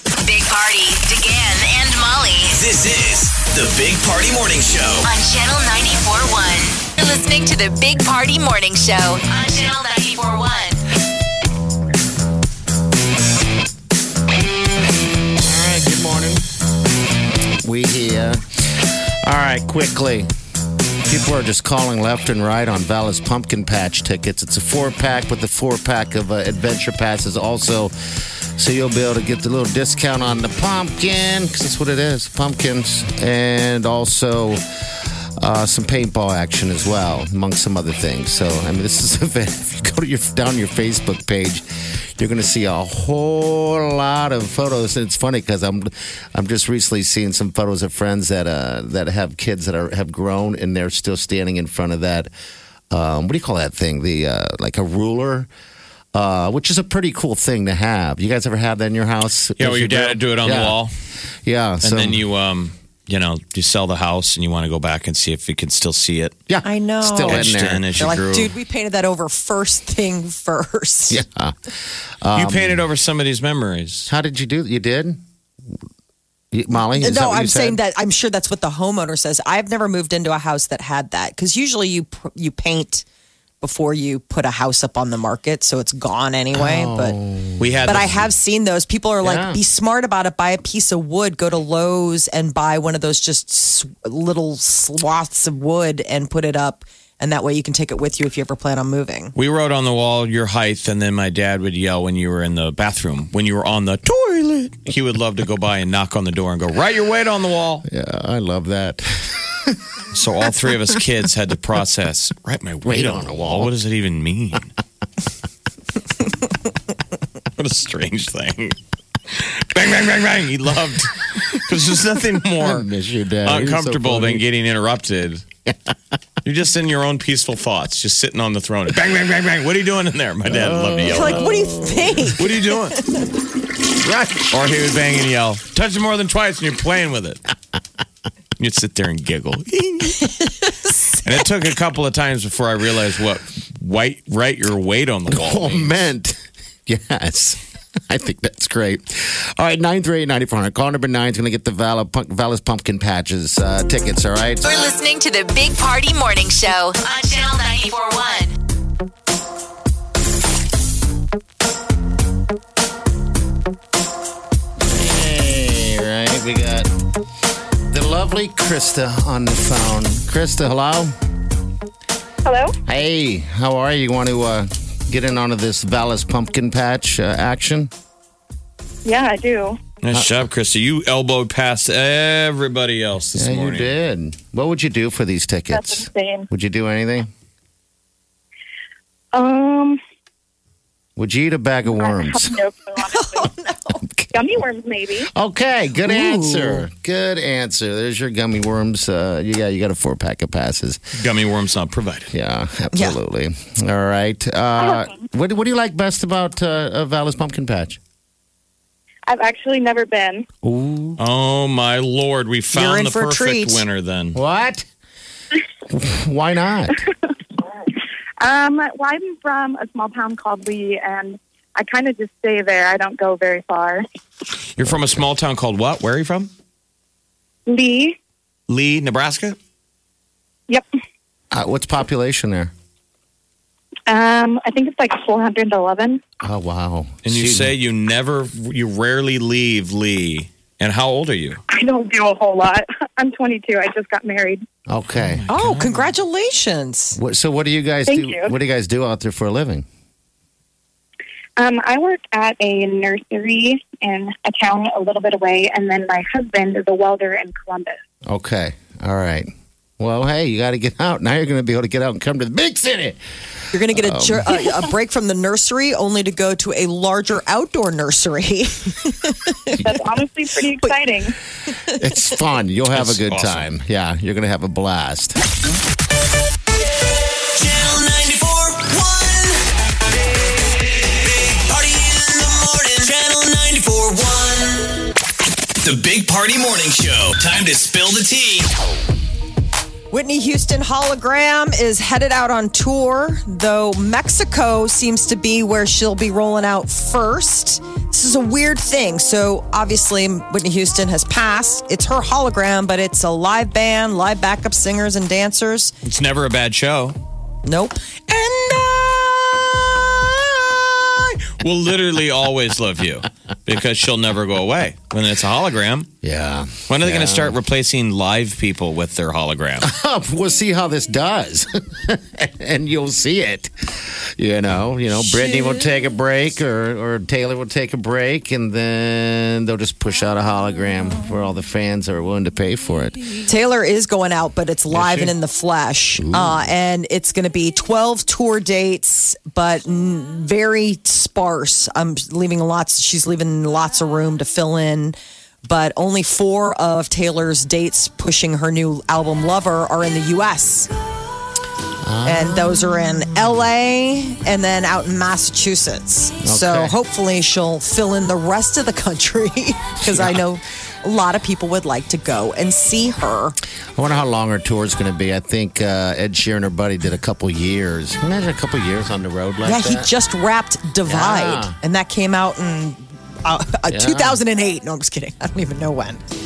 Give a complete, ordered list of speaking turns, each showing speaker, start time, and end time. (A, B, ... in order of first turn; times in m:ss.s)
0:00.1-0:02.6 A
0:02.5-0:05.1 B
0:05.0-0:10.8 A
0:15.4-0:16.5 C
0:17.6-0:20.3 C
0:21.1-0:27.9 C
0:28.6-0:34.6 C
0:35.4-0:52.3 C
0:52.9-0:55.5 C
0:56.1-1:00.8 C
0:59.6-1:00.9 D
1:01.4-1:02.2 C
1:01.8-1:06.4 D
1:06.5-1:07.9 C
1:06.6-1:11.2 E
1:07.3-1:08.5 D
1:11.1-1:11.6 C
1:12.2-1:12.8 C
1:12.4-1:14.1 D
1:14.1-1:15.2 C
1:16.5-1:17.8 C
1:17.0-1:23.0 E
1:23.6-1:27.2 E
1:26.5-1:28.2 C
1:27.6-1:28.1 D
1:27.9-1:39.3 E
1:29.2-1:29.6 C
1:39.4-1:47.8 D
1:47.8-1:49.8 C
1:50.1-1:54.7 D
1:52.8-1:53.7 C
1:57.6-1:58.8 D
1:59.3-2:02.9 D
2:02.5-2:04.4 C
2:03.4-2:05.4 D
2:06.4-2:11.5 D
2:10.4-2:12.4 C
2:11.1-2:12.5 E
2:12.4-2:13.0 D
2:14.0-2:14.5 C
2:14.5-2:17.4 D
2:18.6-2:20.5 D
2:21.1-2:26.0 D
2:25.3-2:34.6 C
2:34.6-2:38.6 A
2:44.8-2:46.9 C
2:47.9-2:51.1 C
2:52.4-2:52.8 F
2:52.9-2:57.9 C
2:59.0-2:59.8 F
3:00.0-3:03.9 D
3:03.4-3:07.3 C
3:05.7-3:06.5 F
3:09.3-3:10.0 F
3:11.2-3:12.6 C
3:12.0-3:13.5 F
3:13.0-3:14.0 E
3:14.0-3:14.3 C
3:14.3-3:15.3 F
3:15.3-3:21.1 C
3:16.0-3:16.8 E
3:21.2-3:22.3 D
3:22.3-3:28.0 C
3:29.3-3:30.5 F
3:30.6-3:31.2 C
3:31.2-3:34.4 D
3:32.7-3:33.8 E
3:34.3-3:34.9 C
3:35.9-3:37.0 C
3:38.4-3:44.0 F
3:44.8-3:46.5 D
3:44.8-3:45.2 C
3:47.7-3:48.2 F
3:48.7-3:49.6 D
3:51.5-3:52.7 C
3:54.1-3:56.2 F
3:56.4-3:57.7 C
3:57.2-4:01.6 D
4:01.7-4:04.6 F
4:04.9-4:05.4 C
4:05.2-4:06.1 D
4:05.5-4:07.2 E
4:07.2-4:09.9 C
4:08.1-4:08.5 F
4:11.6-4:18.0 F
4:18.3-4:23.2 C
4:23.7-4:29.8 E
4:23.9-4:24.6 C
4:29.8-4:31.4 F
4:32.0-4:35.4 C
4:32.9-4:33.7 D
4:37.5-4:39.7 B
4:40.4-4:45.1 B
4:45.8-4:48.7 B
4:50.1-5:05.9 E
5:06.0-5:07.2 D
5:07.6-5:08.0 E
5:09.2-5:09.5 D
5:11.4-5:16.1 D
5:16.2-5:17.6 C
5:16.9-5:19.9 D
5:19.8-5:33.4 C
5:33.5-5:50.9 E
5:34.9-5:35.3 C
5:36.2-5:36.7 C
5:52.0-5:53.2 C
5:52.2-6:03.6 E
5:56.4-5:56.9 C
6:00.0-6:00.4 C
6:04.0-6:10.1 C
6:09.6-6:16.2 E
6:11.1-6:11.8 C
6:13.9-6:14.4 C